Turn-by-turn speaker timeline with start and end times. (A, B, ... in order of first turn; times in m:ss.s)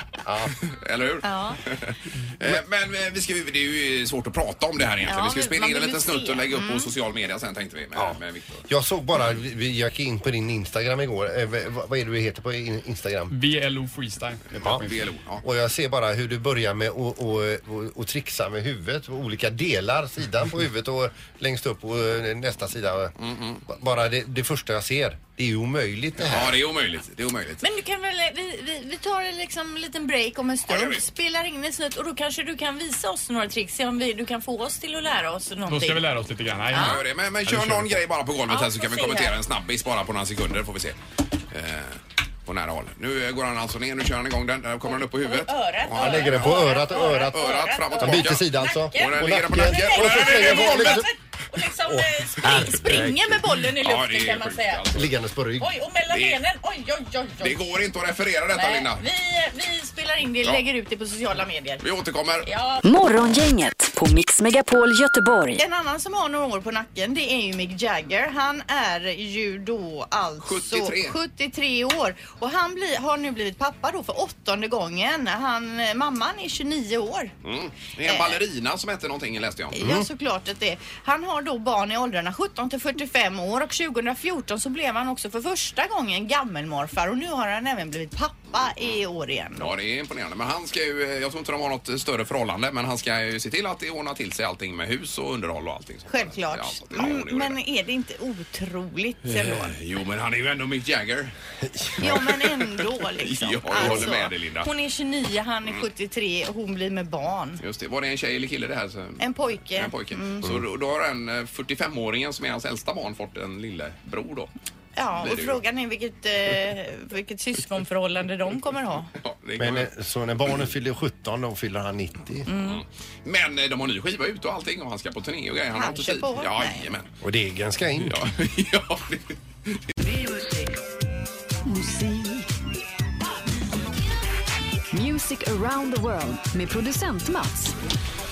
0:00.2-0:00.5 A
0:00.6-0:08.6 B
0:01.2-0:01.6 C
0:05.0-0:06.9 C
0:08.0-0:13.3 A
0:13.3-0:15.0 D
0:14.6-0:15.4 B
0:15.4-0:23.1 A
0:23.2-0:23.6 B
0:23.7-0:26.6 A
0:26.2-0:27.6 B
0:27.6-0:37.0 C
0:30.6-0:31.0 B
0:35.6-0:38.0 D
0:36.7-0:41.0 B
0:38.5-0:39.4 C
0:41.5-0:51.1 B
0:44.9-0:54.9 C
0:46.0-0:51.1 A
0:51.8-0:53.4 A
0:52.5-0:53.0 B
0:53.7-0:55.2 B
0:54.9-0:55.8 A
0:55.6-0:57.6 C
0:56.1-0:56.4 B
0:57.4-0:59.0 B
0:58.5-1:01.8 C
1:01.8-1:02.5 B
1:02.4-1:03.3 C
1:02.8-1:05.6 E
1:05.6-1:17.3 C
1:10.4-1:11.2 B
1:17.4-1:20.0 B
1:18.0-1:18.4 C
1:19.7-1:29.7 C
1:29.6-1:37.6 B
1:36.1-1:39.8 C
1:39.2-1:44.7 B
1:41.8-1:42.2 A
1:42.0-1:47.6 C
1:43.8-1:44.0 A
1:47.6-1:54.5 B
1:49.2-1:50.5 C
1:55.0-1:59.1 C
1:55.1-1:55.6 B
1:59.2-1:59.9 B
1:59.6-2:02.5 A
2:02.5-2:02.8 C
2:02.5-2:07.1 B
2:05.7-2:06.9 C
2:07.2-2:08.2 A
2:08.0-2:09.8 B
2:11.6-2:12.5 E
2:14.9-2:17.7 E